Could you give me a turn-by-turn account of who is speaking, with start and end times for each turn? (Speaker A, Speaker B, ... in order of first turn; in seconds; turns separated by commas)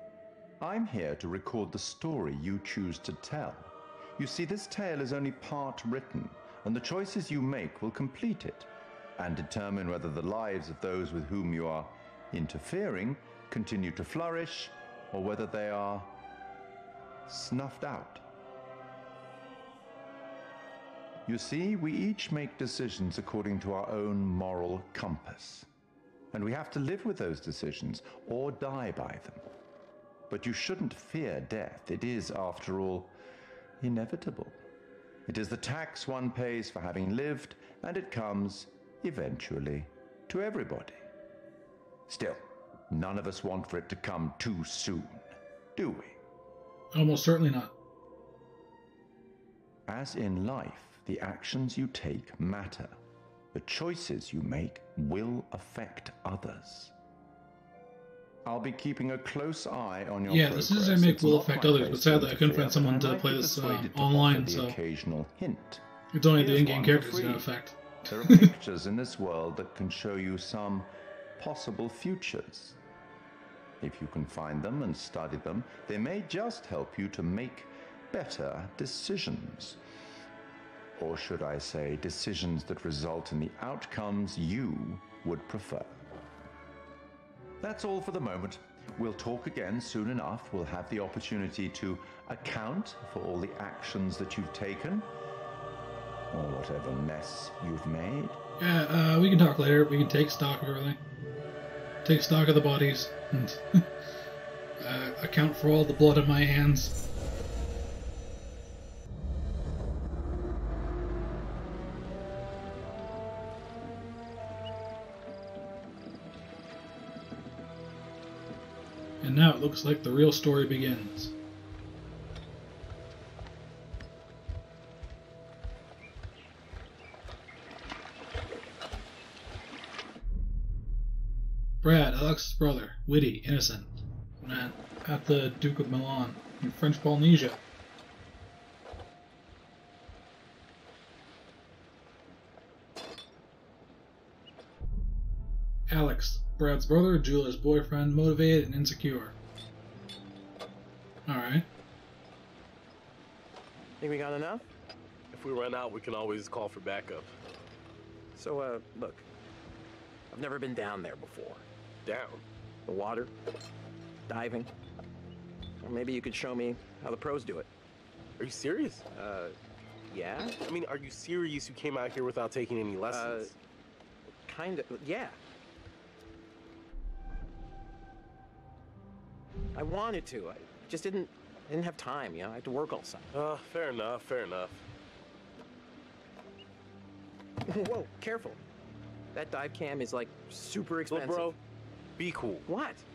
Speaker A: 0.6-16.2, Speaker A: 17.3-18.2, Speaker A: 21.3-25.7, Speaker A: 26.3-29.4, Speaker A: 30.3-33.1, Speaker A: 33.8-34.6, Speaker A: 35.3-41.0, Speaker A: 42.1-46.2, Speaker B: 46.9-47.7, Speaker A: 49.9-53.0, Speaker A: 53.5-56.9, Speaker A: 58.5-65.8, Speaker B: 60.3-64.8, Speaker B: 66.1-68.5, Speaker A: 66.4-67.5, Speaker A: 68.1-72.8, Speaker A: 73.8-79.8, Speaker A: 81.0-86.0, Speaker A: 87.6-95.1, Speaker A: 96.3-98.4, Speaker B: 98.6-101.0, Speaker B: 102.0-103.9, Speaker B: 104.8-107.0, Speaker B: 119.2-121.3, Speaker B: 131.8-137.6, Speaker B: 145.9-149.3, Speaker B: 151.3-151.7, Speaker C: 154.0-154.7, Speaker D: 155.3-157.3, Speaker C: 158.4-159.3, Speaker C: 160.3-161.7, Speaker D: 162.1-162.4, Speaker C: 162.9-163.3, Speaker C: 164.3-164.7, Speaker C: 165.8-167.7, Speaker D: 168.4-169.0, Speaker C: 169.1-169.6, Speaker C: 170.1-170.6, Speaker D: 170.6-173.5, Speaker C: 173.1-173.5, Speaker C: 174.5-175.4, Speaker C: 179.8-183.3, Speaker D: 183.3-184.9, Speaker C: 187.7-188.6, Speaker C: 189.3-191.6, Speaker D: 191.1-191.6, Speaker D: 192.2-192.6, Speaker C: 192.7-193.1